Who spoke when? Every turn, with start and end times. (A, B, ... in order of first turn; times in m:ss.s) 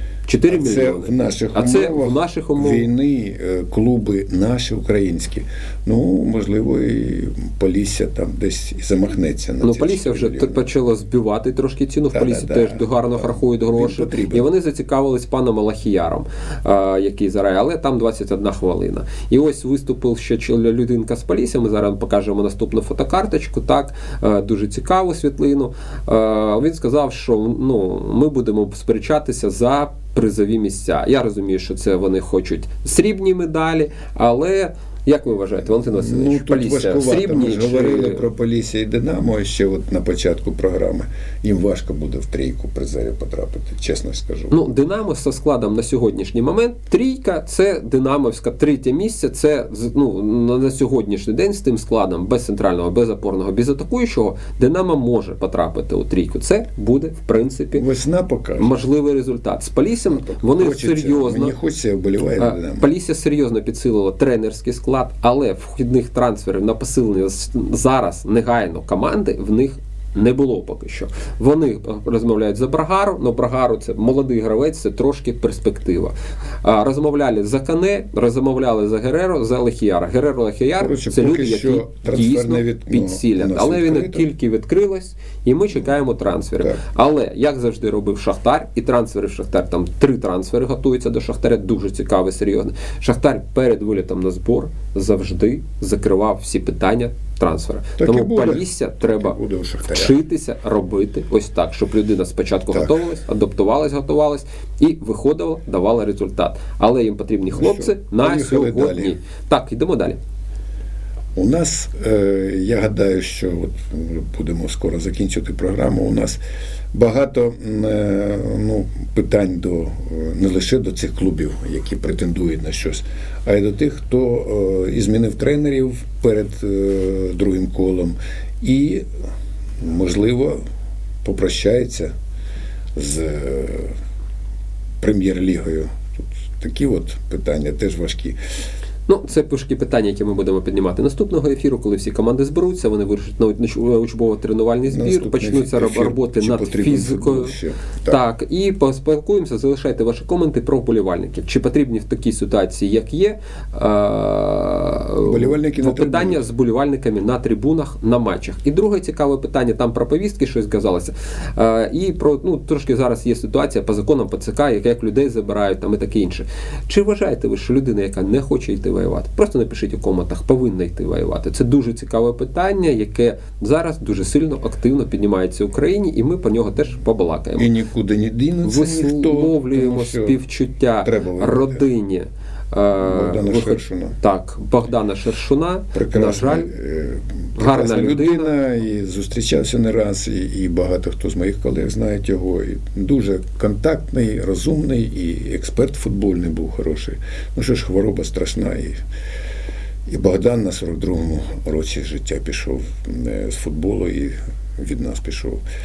0:00.3-0:02.9 A
0:00.5-0:10.6 B
0:09.6-0:38.2 A
0:12.1-0:14.5 B
0:35.9-0:44.6 B
0:44.5-0:57.8 A
0:57.8-0:58.7 B
0:58.6-1:01.6 A
1:00.1-1:02.9 B
1:02.4-1:39.4 A
1:20.8-1:24.3 B
1:38.0-1:40.2 B
1:39.9-1:50.2 A
1:42.7-1:43.0 B
1:47.5-1:49.2 B
1:51.4-1:56.4 B
1:56.9-2:09.1 B
2:09.8-2:10.6 B
2:11.2-2:12.1 B
2:13.0-2:14.0 B
2:15.0-2:18.4 B
2:19.1-2:27.6 A
2:24.9-2:28.2 B
2:28.1-2:57.7 A
2:35.2-2:36.4 B
2:57.6-3:00.4 B
2:58.6-3:06.7 A
3:01.0-3:01.8 B
3:03.0-3:04.2 B
3:05.9-3:19.0 B
3:07.6-3:08.5 A
3:20.1-3:25.6 B